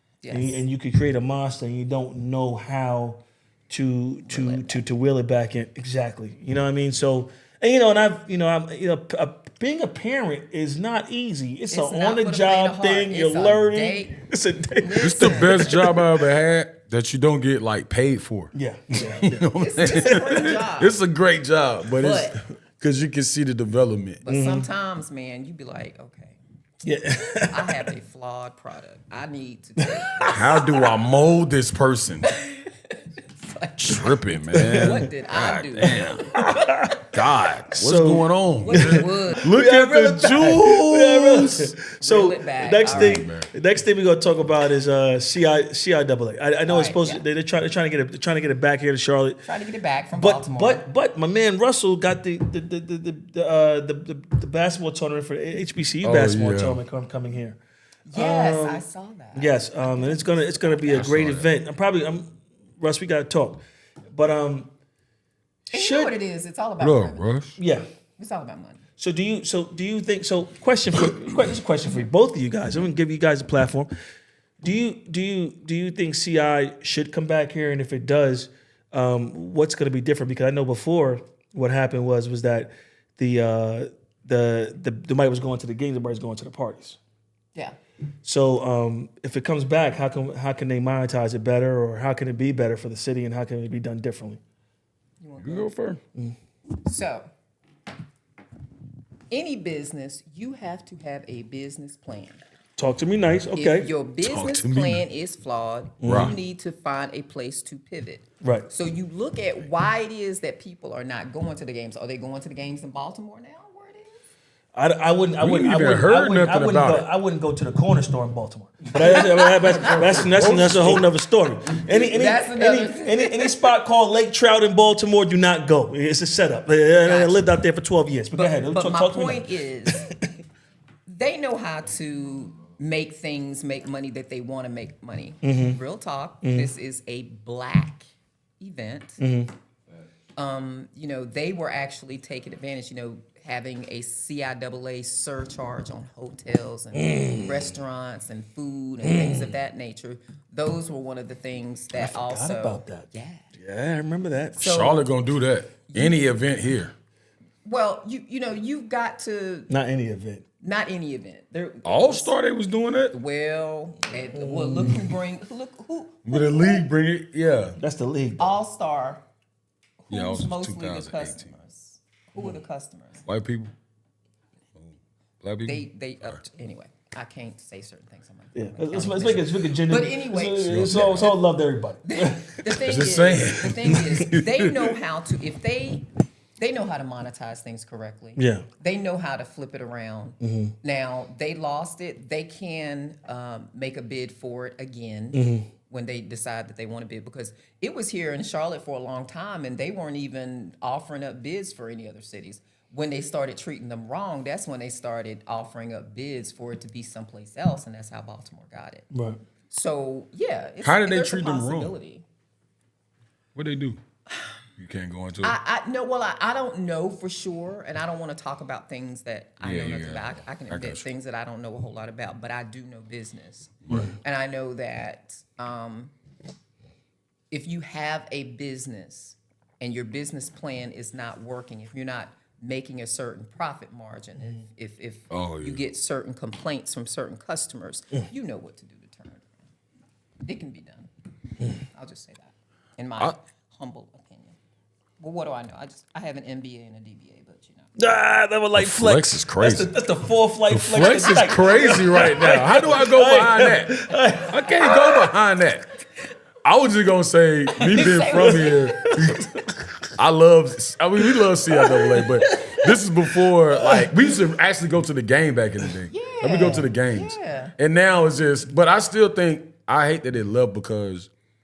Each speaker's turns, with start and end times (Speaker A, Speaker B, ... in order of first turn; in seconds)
Speaker A: 0.2-0.6, 4.3-4.8, 11.7-14.2, 14.7-15.9, 18.9-21.0, 21.9-22.4, 24.2-26.4, 27.4-31.0, 32.2-36.5, 38.6-39.5, 42.0-43.3, 46.7-47.2, 49.4-50.9, 58.1-61.1, 65.7-67.3, 68.2-68.8, 95.2-95.7, 96.8-97.3, 99.3-102.4, 103.5-114.2, 119.0-120.5, 121.8-123.6, 127.0-127.5, 128.3-130.1, 131.1-138.1, 138.6-139.2, 140.4-153.5, 154.6-155.1, 155.9-156.2, 157.6-159.7, 160.6-162.4, 163.1-166.9, 168.4-169.2, 170.0-173.3, 175.7-181.4, 182.0-186.1, 186.6-209.1, 209.7-212.2, 215.4-226.1, 227.5-239.6, 240.4-241.1, 241.8-244.6, 245.2-247.9, 257.8-259.1, 266.1-267.7
Speaker B: 0.3-16.0, 18.5-20.2, 24.3-24.7, 26.8-27.9, 29.8-30.4, 34.5-34.9, 36.4-37.1, 37.8-49.4, 50.2-57.6, 58.1-63.6, 64.1-64.7, 65.7-66.1, 67.6-67.8, 69.0-73.9, 74.6-87.0, 88.2-94.4, 102.8-103.9, 106.0-106.4, 108.4-108.7, 114.7-130.3, 135.4-135.8, 136.4-136.7, 139.2-139.5, 146.9-147.5, 149.0-149.5, 151.9-154.7, 159.7-160.4, 164.3-165.1, 167.8-168.6, 178.6-182.6, 188.4-188.7, 190.4-190.7, 195.3-195.7, 209.1-209.4, 248.0-255.2, 257.9-259.8, 261.7-262.8, 263.8-264.1
Speaker C: 15.0-18.5, 19.2-24.2, 30.3-32.3, 33.8-36.4, 37.1-41.7, 42.9-43.5, 56.0-56.8, 60.9-61.5, 66.8-67.6, 95.4-96.0, 104.2-105.0, 106.0-106.4, 115.4-117.1, 119.8-121.0, 154.6-156.9, 161.8-163.2, 166.2-167.8, 170.1-171.6, 173.3-173.7, 174.8-176.4, 180.6-181.3, 182.8-184.9, 210.8-211.9, 213.6-214.0, 214.8-215.6, 219.6-221.1, 223.9-224.2, 235.3-235.8, 248.8-249.9, 250.7-255.9, 256.6-259.5, 260.2-271.3